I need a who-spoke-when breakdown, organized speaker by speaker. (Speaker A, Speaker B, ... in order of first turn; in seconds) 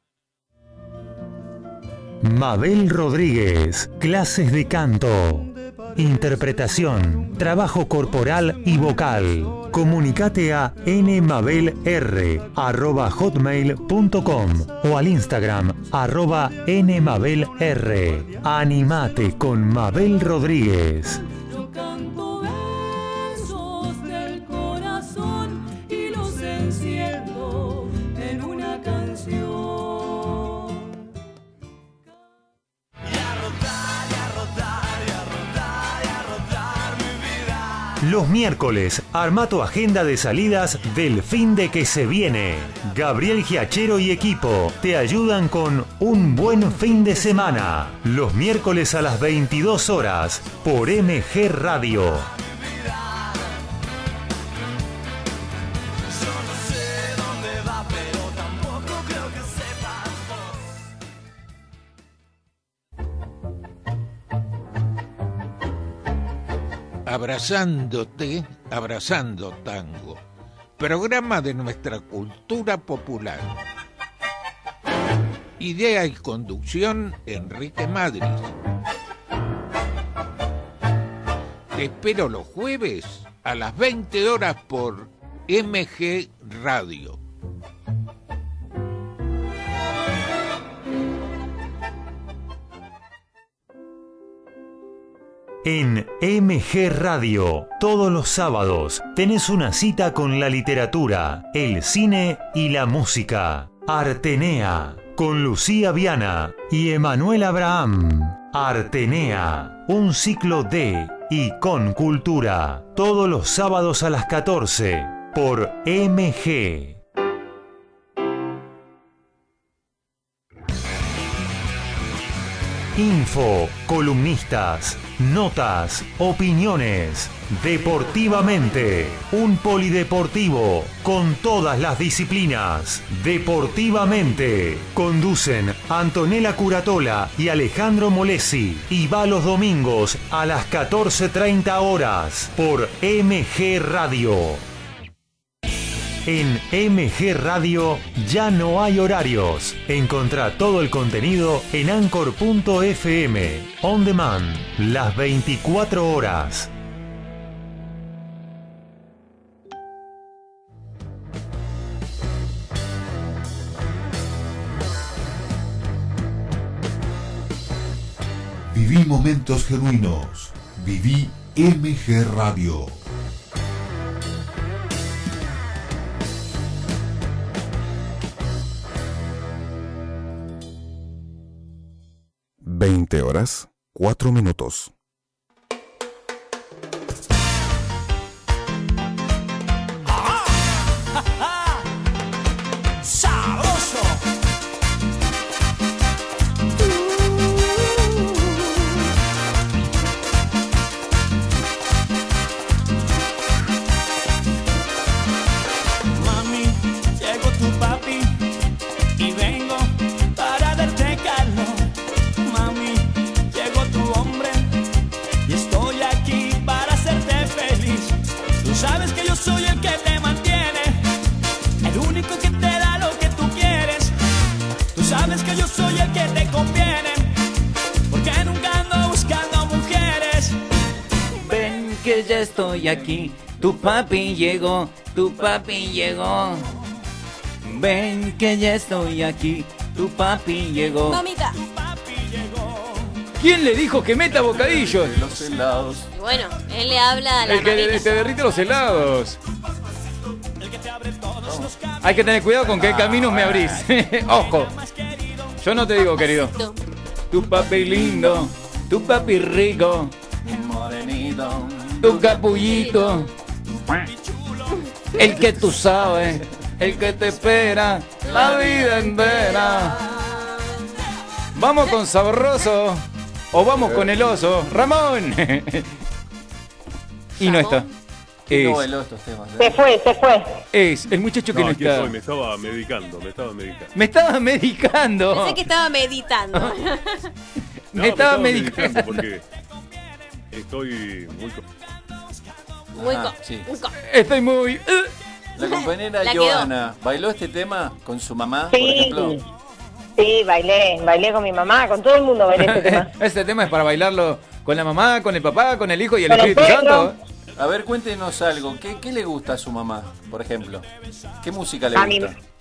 Speaker A: 2.2-21.2, 38.0-52.3, 95.6-117.0, 123.0-144.7, 146.2-156.7
Speaker B: 21.3-30.9
Speaker C: 67.0-70.2, 70.8-73.5, 75.6-78.5, 81.7-87.2
Speaker D: 168.7-173.0
Speaker E: 193.1-194.2, 206.2-208.4, 209.2-214.8, 215.5-221.1, 221.8-224.1, 224.9-227.3, 228.1-230.6, 241.6-243.2, 250.6-252.3, 254.3-255.7, 264.0-264.9
Speaker F: 231.4-236.8, 237.6-241.2, 243.4-245.2, 247.5-249.4, 252.0-254.7, 255.6-256.6, 257.3-260.1, 262.0-263.3, 265.2-270.0, 271.6-275.9, 277.4-277.9, 278.5-278.8, 280.7-282.1, 283.9-285.6, 287.9-289.2, 294.0-295.1, 302.6-307.1
Speaker G: 241.1-241.6, 246.1-248.2, 256.0-256.8, 262.7-263.2, 268.2-270.6, 277.4-277.9, 285.3-287.3, 293.0-293.9, 296.2-296.7
Speaker H: 244.4-246.1, 251.5-251.7, 252.7-253.9, 257.6-258.5, 260.4-262.9, 273.7-274.3, 278.5-279.8, 292.9-293.7, 295.6-299.4, 307.6-310.9, 311.4-312.3
Speaker I: 279.6-280.6, 298.7-299.4, 300.2-303.1, 306.3-307.1, 311.9-312.3
Speaker J: 281.5-283.9, 287.9-289.4, 290.5-291.6